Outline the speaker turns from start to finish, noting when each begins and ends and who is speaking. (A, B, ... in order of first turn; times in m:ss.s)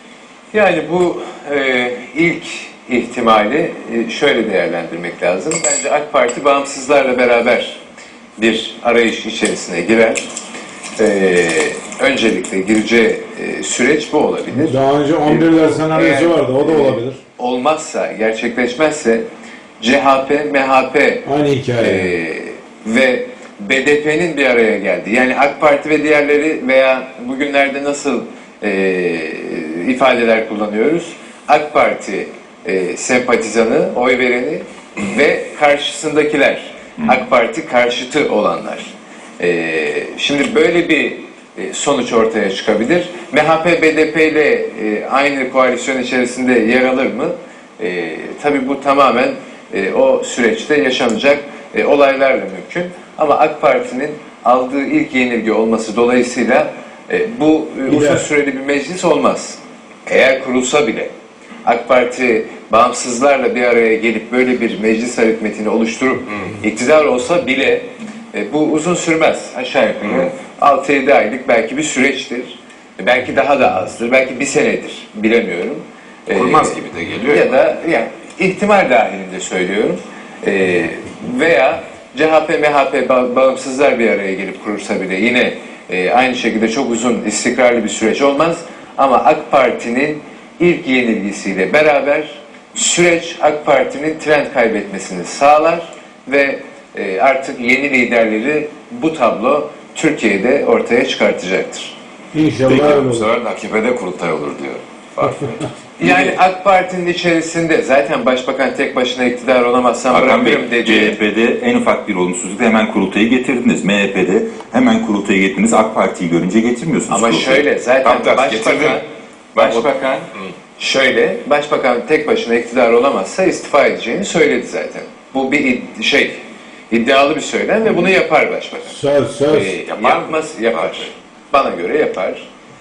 0:00.5-0:07.8 A
0:08.4-0:10.2 A
0:11.0-0:19.2 A
0:14.6-0:17.2 B
0:19.8-0:21.2 A
0:21.2-0:22.1 B
0:21.8-1:01.1 A
0:57.9-0:58.2 B
1:01.6-1:41.9 A
1:10.0-1:10.3 C
1:16.3-1:17.6 C
1:42.3-1:43.3 B
1:42.6-1:46.4 C
1:46.0-1:51.2 A
1:50.1-1:57.6 D
1:57.1-1:59.0 A
1:58.0-1:59.0 C
1:59.5-2:00.5 C
1:59.6-2:00.2 A
2:00.8-2:06.4 A
2:06.9-2:09.0 A
2:08.9-2:09.7 B
2:09.5-2:12.4 A
2:09.9-2:11.1 C